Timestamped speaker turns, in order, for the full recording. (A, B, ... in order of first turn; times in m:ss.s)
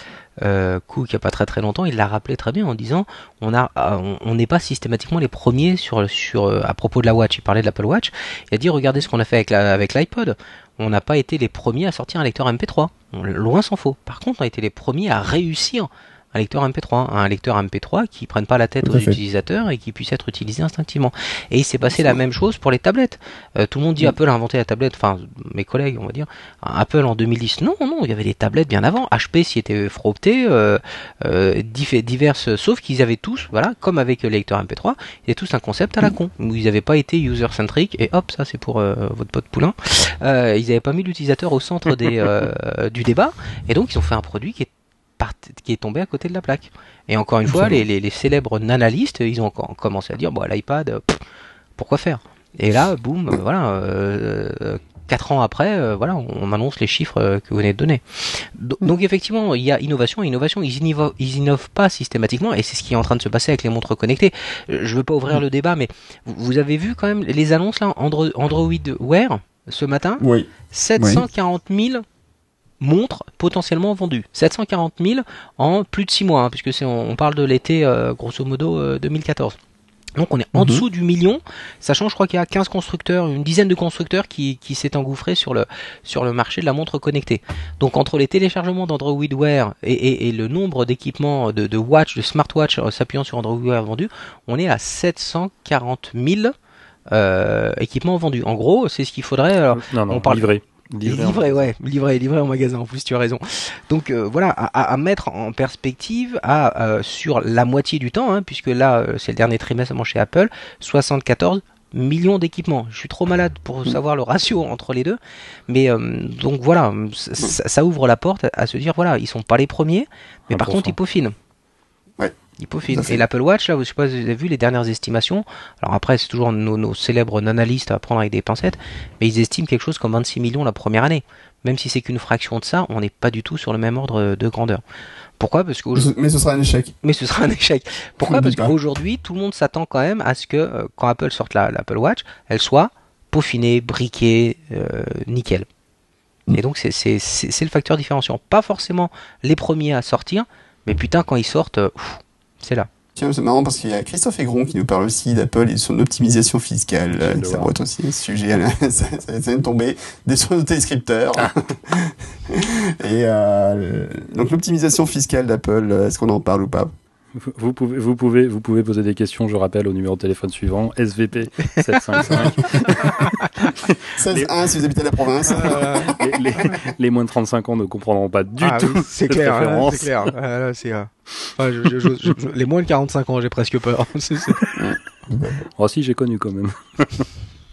0:00.4-0:51.2 A
0:18.8-0:19.2 B
0:47.5-0:47.8 B
0:51.8-1:12.0 A
1:10.2-1:11.2 B
1:12.8-1:19.6 A
1:20.2-1:36.5 A
1:20.6-1:20.8 B
1:37.1-1:40.5 A
1:39.7-1:41.7 C
1:41.0-2:01.4 A
2:00.5-2:01.0 C
2:02.6-2:14.8 A
2:02.9-2:03.2 B
2:15.4-2:16.1 A
2:16.0-2:16.9 B
2:17.0-2:25.7 A
2:18.2-2:18.8 B
2:26.5-2:32.9 A
2:33.2-2:46.9 B
2:37.1-2:37.7 C
2:47.4-2:54.7 C
2:51.7-2:53.5 A
2:52.2-2:52.9 B
2:54.2-2:56.3 B
2:55.5-2:56.1 A
2:56.0-3:00.3 C
2:58.6-3:04.6 A
3:04.8-3:05.7 B
3:05.8-3:07.3 C